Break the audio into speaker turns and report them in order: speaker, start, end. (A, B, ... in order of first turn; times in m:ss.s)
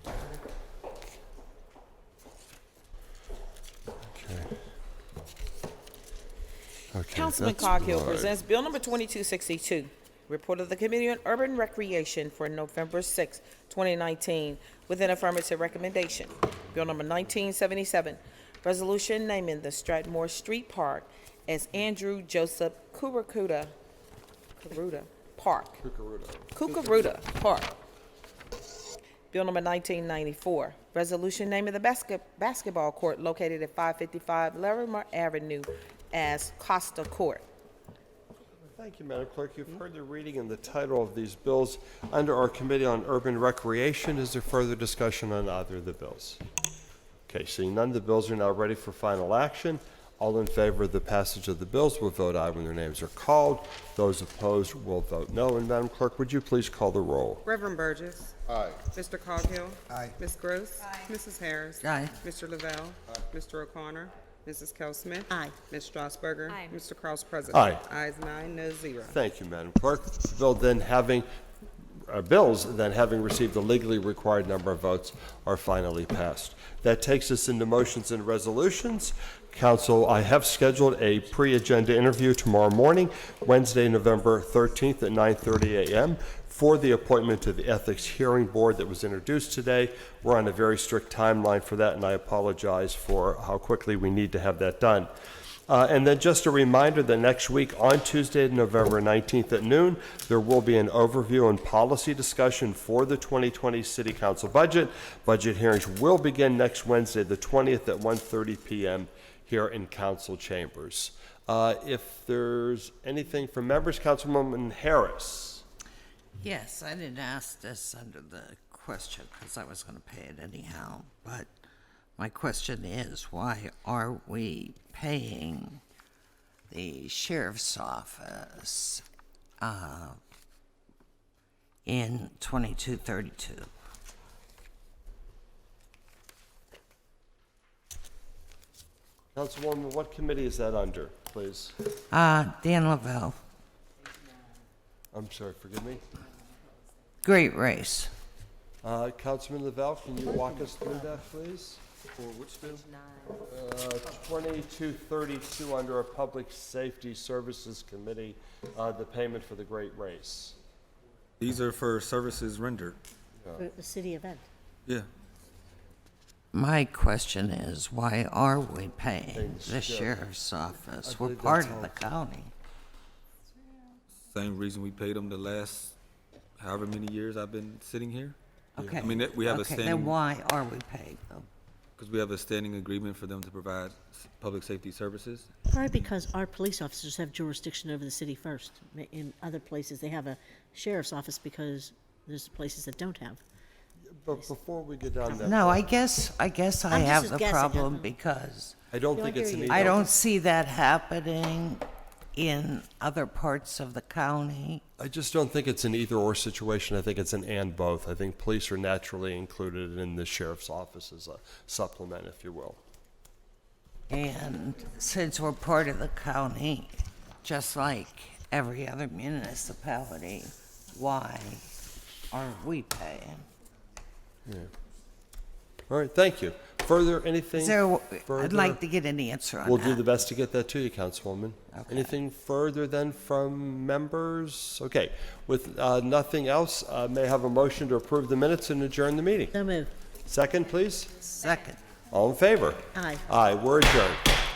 0:04.1-0:04.5 A
0:06.9-0:08.4 A
0:07.1-0:23.7 B
0:24.6-0:25.8 B
0:25.8-0:26.7 A
0:26.5-0:27.7 B
0:29.3-0:37.4 B
0:38.7-0:46.4 A
0:47.3-0:57.4 A
0:57.4-1:09.2 C
1:01.8-1:02.1 D
1:07.5-1:07.8 A
1:09.1-1:11.2 A
1:12.1-1:35.1 A
1:35.7-1:55.6 A
1:56.4-2:01.5 D
2:02.2-2:05.8 D
2:06.7-2:09.0 D
2:09.6-2:10.2 D
2:11.8-2:13.7 D
2:19.3-2:21.7 A
2:22.1-2:23.4 D
2:25.1-2:26.1 A
2:27.2-2:28.1 D
2:28.8-2:31.8 A
2:32.2-2:32.8 E
2:33.5-2:40.6 A
2:41.4-2:43.0 E
2:43.6-2:44.4 F
2:46.5-2:52.5 D
2:49.3-2:50.2 A
2:51.0-2:52.0 A
2:54.3-2:56.0 E
2:56.6-2:58.4 E
2:58.8-3:01.5 D
2:58.9-3:00.2 E
3:02.0-3:05.5 E
3:05.7-3:13.4 F
3:14.1-3:15.9 A
3:15.4-3:18.8 D
3:16.9-3:18.1 F
3:18.9-3:20.1 A
3:19.7-3:24.8 D
3:25.0-3:32.8 A
3:34.1-3:41.6 D
3:42.3-3:43.5 D
3:44.4-3:44.7 A
3:45.9-3:48.8 A
3:47.6-3:50.0 D
3:49.6-3:59.5 A
3:51.7-3:52.2 D
3:59.5-3:59.9 F
4:00.2-4:01.1 A
4:01.2-4:01.8 D
4:02.1-4:04.3 A
4:02.9-4:03.2 F